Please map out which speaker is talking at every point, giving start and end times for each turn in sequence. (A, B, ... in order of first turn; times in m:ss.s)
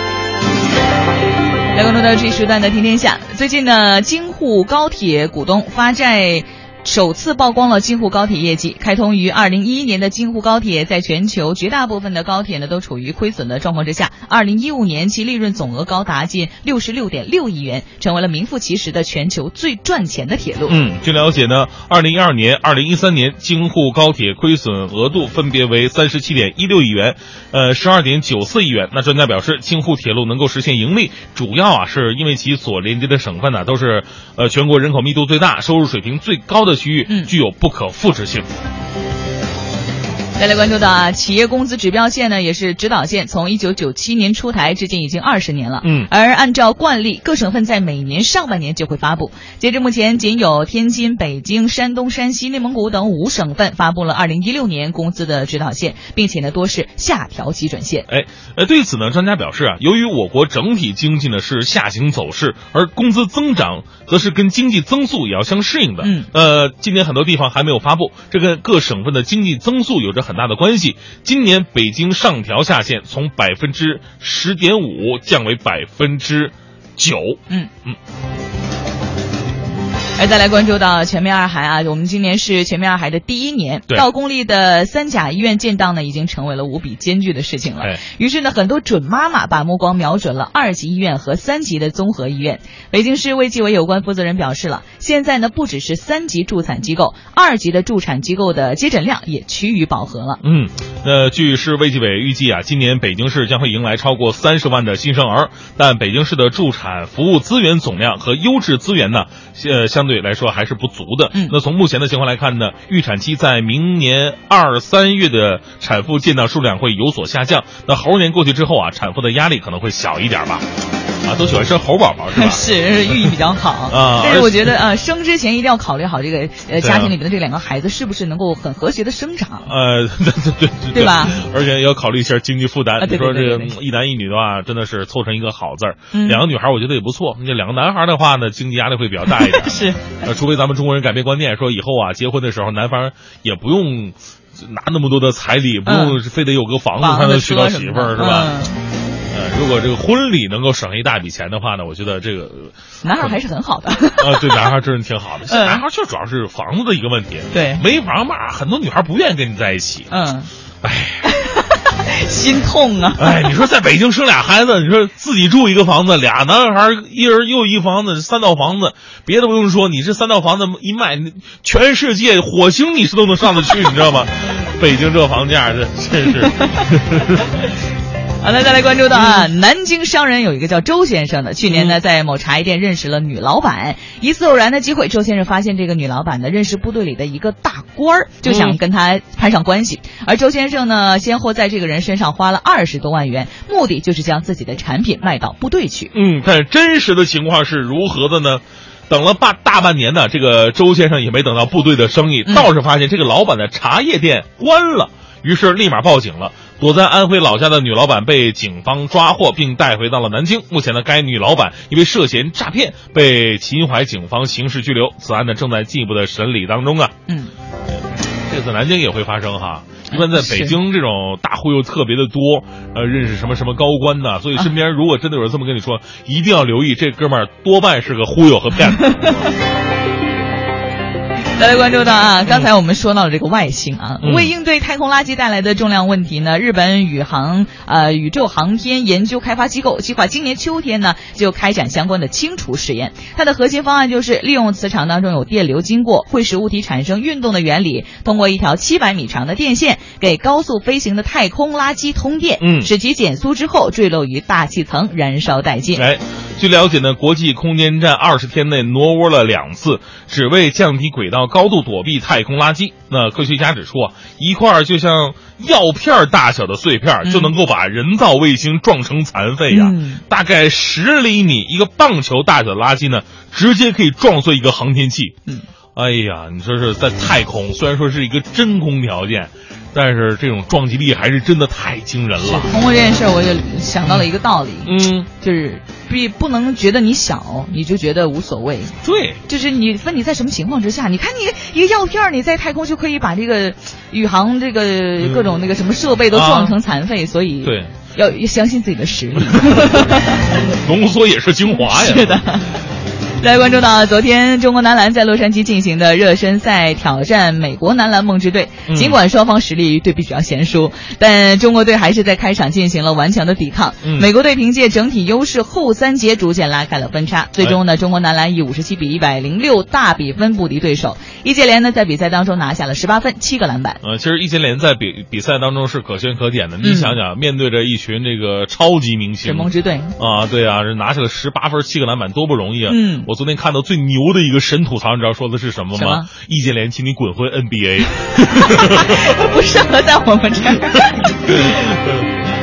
0:01.7-0:20.8 A
0:20.7-0:38.4 B
0:37.1-0:37.3 A
0:40.4-0:58.1 A
0:45.8-0:46.1 B
0:58.1-1:18.0 B
1:06.0-1:06.3 A
1:20.2-1:40.4 A
1:40.4-2:00.6 B
2:01.2-2:02.6 B
2:02.3-2:09.7 A
2:03.9-2:04.7 B
2:06.8-2:07.1 B
2:09.6-2:28.6 B
2:10.9-2:11.4 A
2:13.0-2:13.7 A
2:16.1-2:16.4 A
2:19.2-2:20.2 A
2:25.8-2:26.2 A
2:27.0-2:28.8 A
2:29.3-2:33.4 B
2:33.0-2:34.7 A
2:34.2-2:40.1 B
2:35.4-2:35.8 A
2:37.5-2:37.8 A
2:40.1-2:40.5 A
2:40.8-2:41.3 B
2:41.2-2:43.4 A
2:43.2-2:57.4 B
2:56.5-2:56.8 A
2:58.4-3:16.1 A
2:59.1-2:59.4 B
3:01.7-3:02.0 B
3:08.4-3:08.8 B
3:16.1-3:37.1 B
3:22.4-3:22.7 A
3:38.5-3:49.5 B
3:40.1-3:40.8 A
3:48.8-3:49.5 A
3:51.6-4:16.0 A
3:54.2-3:54.5 B
4:12.6-4:12.9 B
4:16.0-4:35.3 B
4:27.2-4:27.5 A
4:29.7-4:30.2 A
4:35.9-4:42.7 B
4:42.4-5:00.6 A
4:44.8-4:45.3 B
4:49.0-4:49.4 B
4:55.2-4:55.6 B
4:56.3-4:56.8 B
4:57.6-4:57.9 B
4:59.5-5:02.4 B
5:01.8-5:02.8 A
5:03.4-5:24.0 A
5:08.9-5:09.2 B
5:14.0-5:14.3 B
5:24.0-5:39.3 B
5:26.8-5:27.2 A
5:29.4-5:30.2 A
5:32.9-5:33.3 A
5:35.9-5:36.3 A
5:38.4-5:41.3 A
5:41.2-5:42.3 B